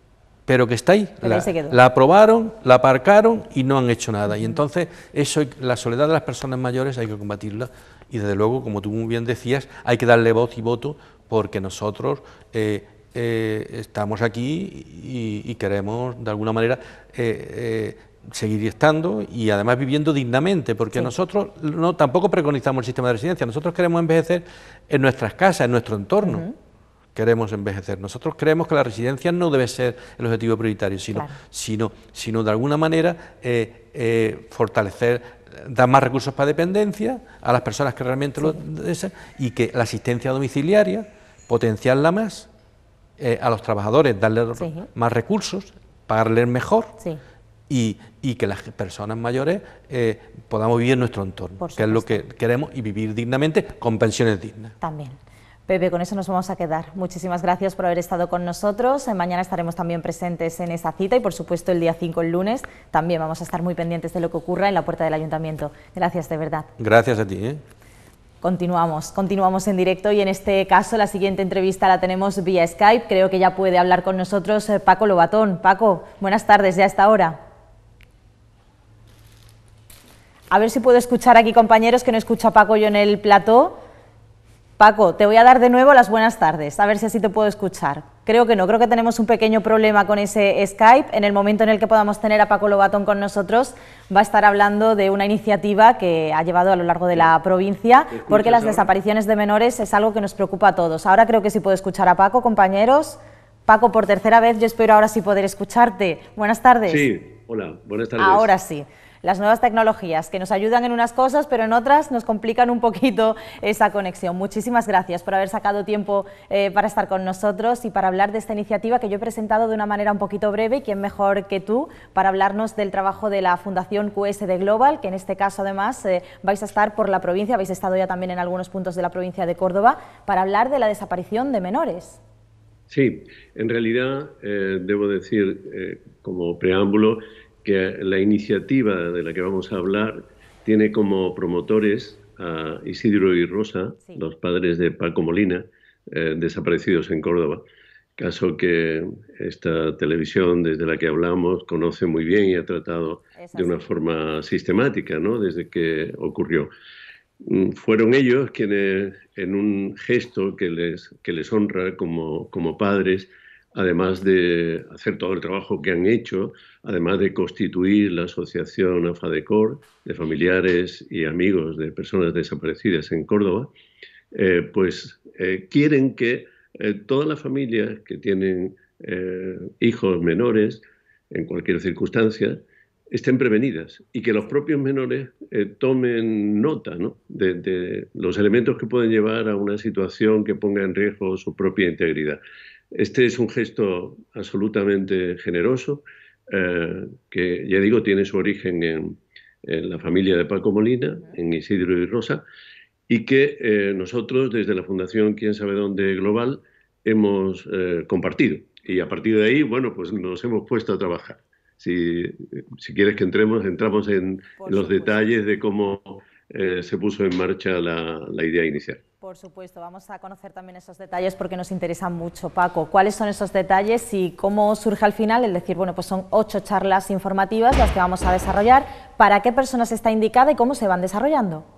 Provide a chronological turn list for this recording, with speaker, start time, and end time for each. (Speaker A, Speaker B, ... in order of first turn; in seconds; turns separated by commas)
Speaker A: 0.5-26.5, Speaker B: 1.2-1.8, Speaker B: 4.3-4.6, Speaker B: 26.2-26.5, Speaker A: 27.1-42.5, Speaker A: 43.2-46.9, Speaker B: 44.6-44.9, Speaker A: 47.7-54.8, Speaker B: 51.6-52.2, Speaker B: 54.8-66.7, Speaker A: 66.8-67.6, Speaker B: 68.4-77.4, Speaker B: 80.5-83.8, Speaker B: 84.8-107.1, Speaker C: 98.1-98.9, Speaker C: 106.9-108.5, Speaker B: 108.2-132.2, Speaker C: 132.9-147.6, Speaker C: 148.2-156.7, Speaker B: 153.4-153.8, Speaker C: 157.4-173.7, Speaker C: 174.3-192.4, Speaker C: 192.9-202.4, Speaker C: 203.1-219.0, Speaker B: 214.6-215.3, Speaker B: 219.2-231.7